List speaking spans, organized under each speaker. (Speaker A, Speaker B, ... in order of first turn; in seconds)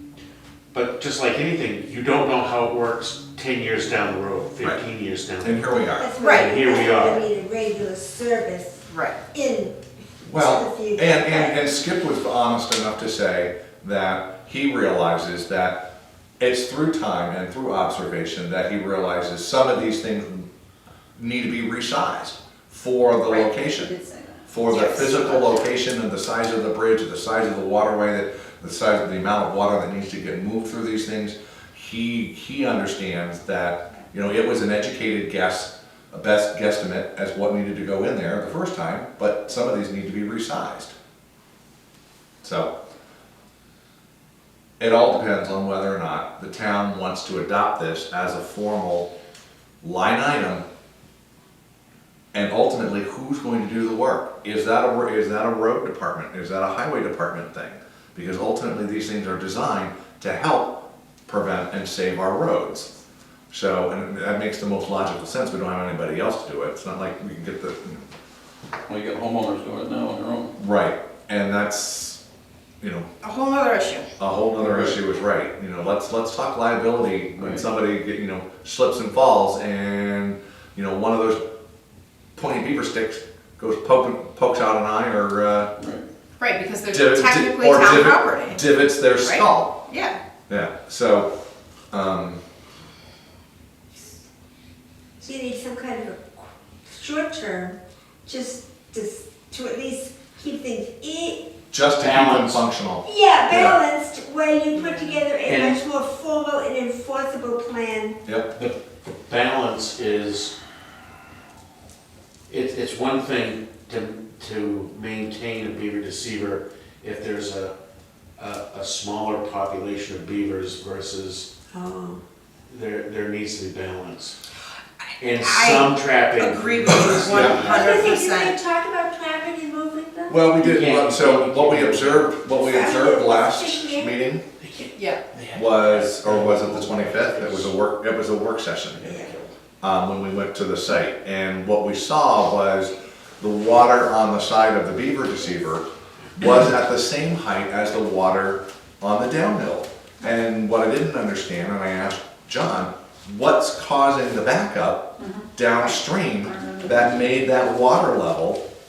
Speaker A: 0.7-5.7, 6.3-7.2, 102.0-102.7, 105.5-105.8, 108.5-110.6, 112.5-117.7, 118.4-121.5, 122.7-124.4, 125.2-128.1, 130.6-132.4, 134.6-137.7, 138.9-139.5
Speaker B: 5.4-6.1, 10.2-15.8, 16.4-20.5, 21.2-40.9, 42.4-42.7, 44.8-49.1, 49.8-50.6, 52.3-62.9, 63.5-68.1, 70.6-72.2, 72.8-73.1, 74.2-81.4, 82.4-85.7, 86.9-89.7, 90.5-91.3, 91.9-92.4, 101.7-103.8, 127.1-127.7, 130.3-134.4, 135.5-139.1, 139.8-158.6
Speaker C: 6.0-9.8, 10.3-11.6, 95.2-101.5, 103.0-108.2, 121.7-122.2, 127.5-130.4, 132.5-134.2, 139.0-139.3
Speaker D: 6.2-6.6, 8.9-9.2, 24.7-25.6, 73.2-74.1, 86.4-90.2, 104.7-105.2, 125.4-128.6, 134.9-135.2
Speaker E: 68.9-70.6, 74.6-75.0, 77.4-77.6, 85.8-86.0